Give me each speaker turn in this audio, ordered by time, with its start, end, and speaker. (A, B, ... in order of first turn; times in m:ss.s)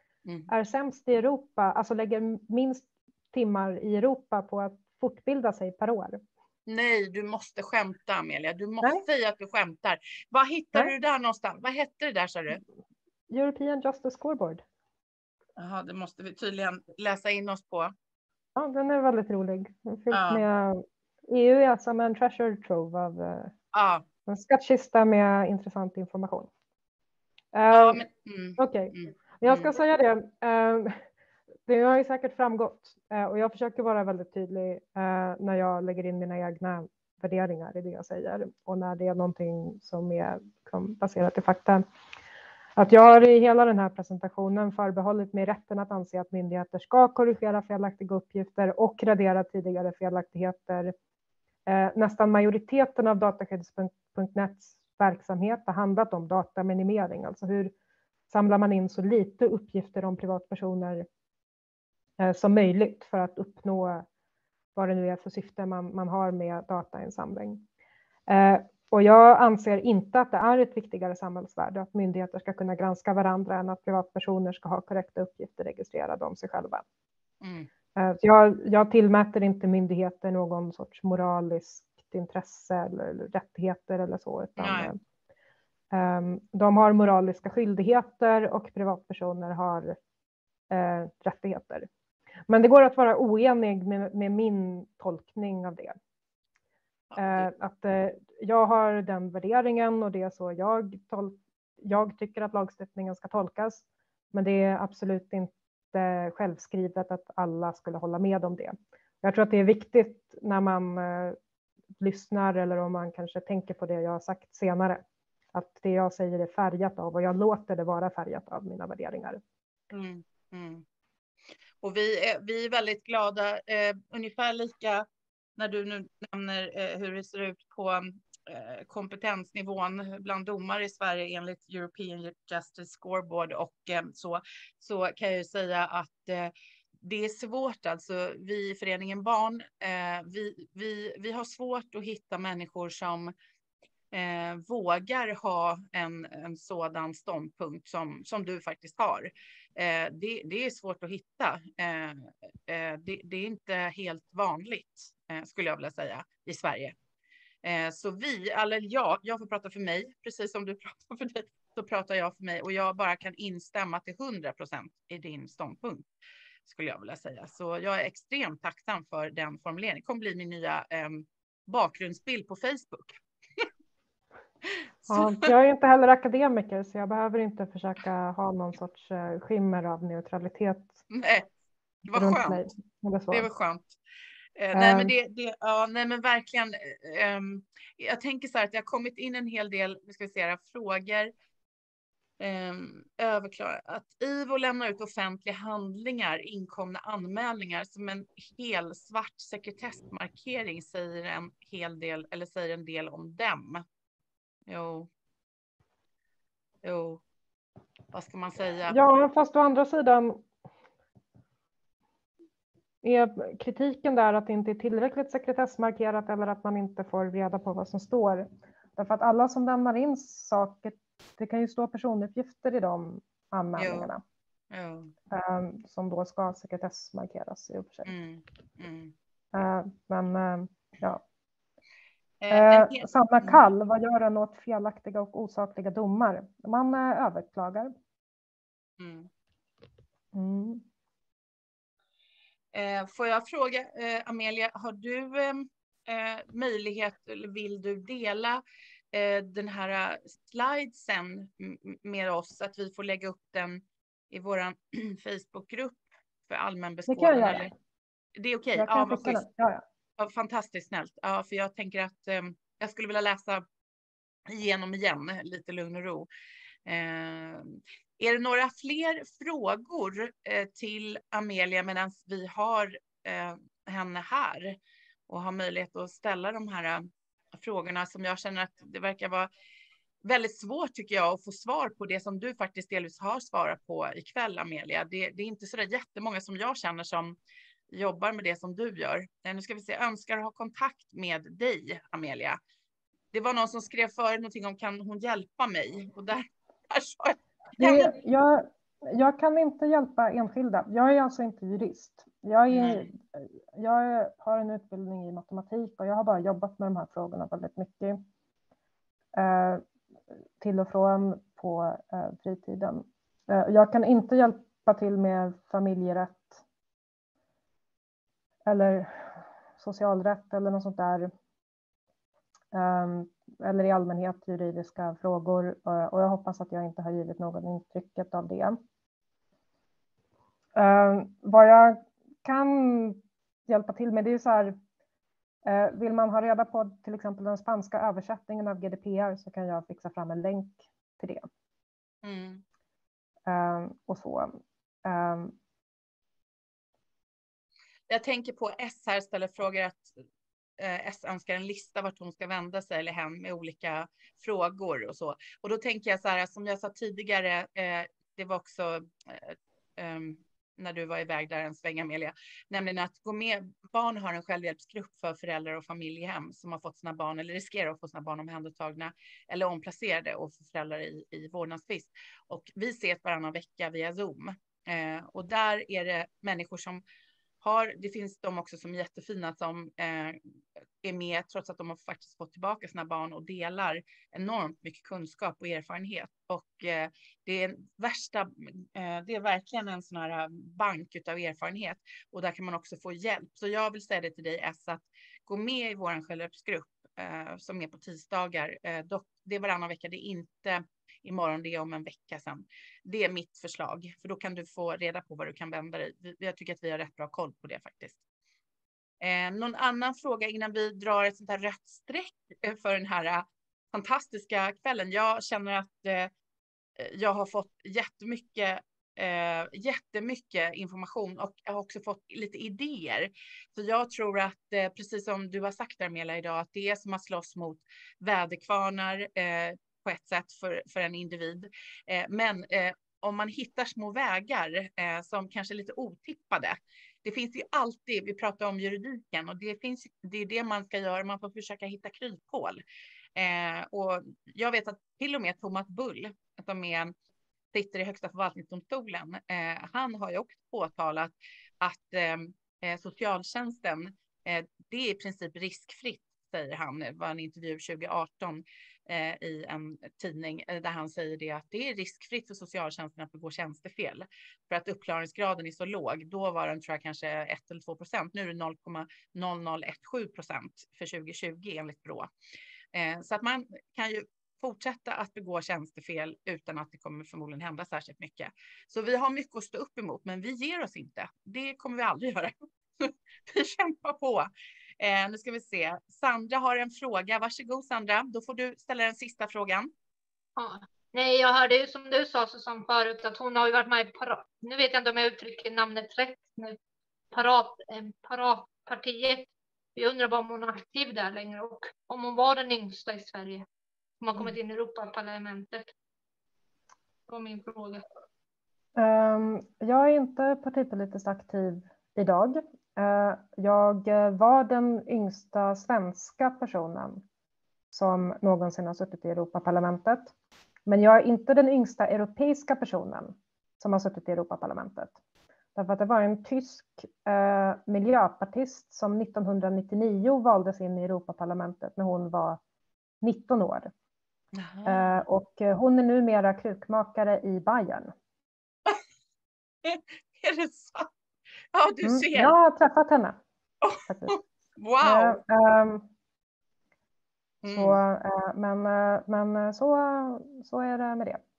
0:00.5-0:06.2 A
0:06.6-0:12.6 B
0:13.3-0:14.6 A
0:15.6-0:17.9 B
0:18.6-0:23.5 A
0:20.1-0:20.4 B
0:23.7-0:24.0 B
0:24.2-0:26.5 A
0:27.5-0:28.0 A
0:27.7-0:29.7 B
0:28.6-0:31.0 A
0:31.7-0:41.8 A
0:42.8-0:50.9 A
0:51.7-0:57.7 A
0:58.3-1:01.0 A
1:02.2-1:04.0 A
1:04.7-1:07.6 A
1:08.3-1:16.8 A
1:17.4-1:17.7 B
1:17.9-1:25.0 A
1:24.6-1:24.9 B
1:25.9-1:30.0 A
1:30.7-1:31.9 A
1:32.5-1:36.0 A
1:37.1-1:37.5 B
1:37.2-1:51.4 A
1:52.0-1:55.0 A
1:55.5-1:59.4 A
1:59.9-2:00.8 B
2:01.8-2:05.0 B
2:05.6-2:23.3 B
2:24.1-2:37.0 B
2:37.6-2:46.0 B
2:46.6-2:53.7 B
2:55.0-2:55.5 B
2:55.1-3:01.0 A
3:01.1-3:01.5 B
3:02.0-3:02.7 B
3:02.1-3:03.5 A
3:03.3-3:04.0 B
3:04.6-3:11.3 B
3:04.7-3:05.1 A
3:12.4-3:23.8 B
3:24.7-3:25.1 B
3:26.8-3:27.2 B
3:28.1-3:29.0 B
3:28.9-3:30.4 A
3:33.0-3:44.2 A
3:43.8-3:44.1 B
3:44.7-3:45.1 B
3:45.3-3:48.1 A
3:48.0-3:49.1 B
3:49.5-3:51.2 A
3:52.4-3:53.6 B
3:52.5-3:57.9 A
3:59.0-3:59.3 B
4:00.3-4:00.8 A
4:02.7-4:08.6 B
4:09.1-4:17.7 B
4:17.1-4:17.7 A
4:18.4-4:19.4 B
4:18.8-4:19.8 A
4:20.2-4:23.6 B
4:24.5-4:26.3 B
4:26.8-4:39.5 B
4:40.2-4:47.3 B
4:47.9-4:52.6 B
4:53.3-4:58.1 B
4:57.8-5:08.2 A
5:02.7-5:03.1 B
5:09.3-5:09.8 A
5:10.6-5:16.6 A
5:18.7-5:21.3 A
5:22.7-5:28.8 A
5:30.7-5:34.7 A
5:35.6-5:41.5 A
5:42.2-5:42.6 B
5:43.5-5:45.5 A
5:48.1-5:50.1 B
5:50.8-6:17.0 B
6:17.6-6:48.2 B
6:49.2-6:56.3 B
6:57.0-7:22.8 B
7:23.3-7:27.1 B
7:27.7-7:52.3 B
7:52.9-8:04.5 B
8:05.0-8:09.9 B
8:10.6-8:16.8 C
8:17.3-8:23.6 C
8:24.2-8:25.9 C
8:27.3-8:28.0 C
8:29.0-8:37.2 A
8:37.9-8:40.3 A
8:40.9-8:45.2 A
8:45.7-8:52.6 A
8:53.2-8:53.9 A
8:54.5-8:55.2 B
8:54.8-8:58.1 A
8:59.8-9:01.1 B
9:01.7-9:02.5 B
9:02.0-9:03.4 A
9:03.8-9:05.4 B
9:04.0-9:04.4 A
9:05.0-9:06.1 A
9:07.6-9:08.0 B
9:07.6-9:11.4 A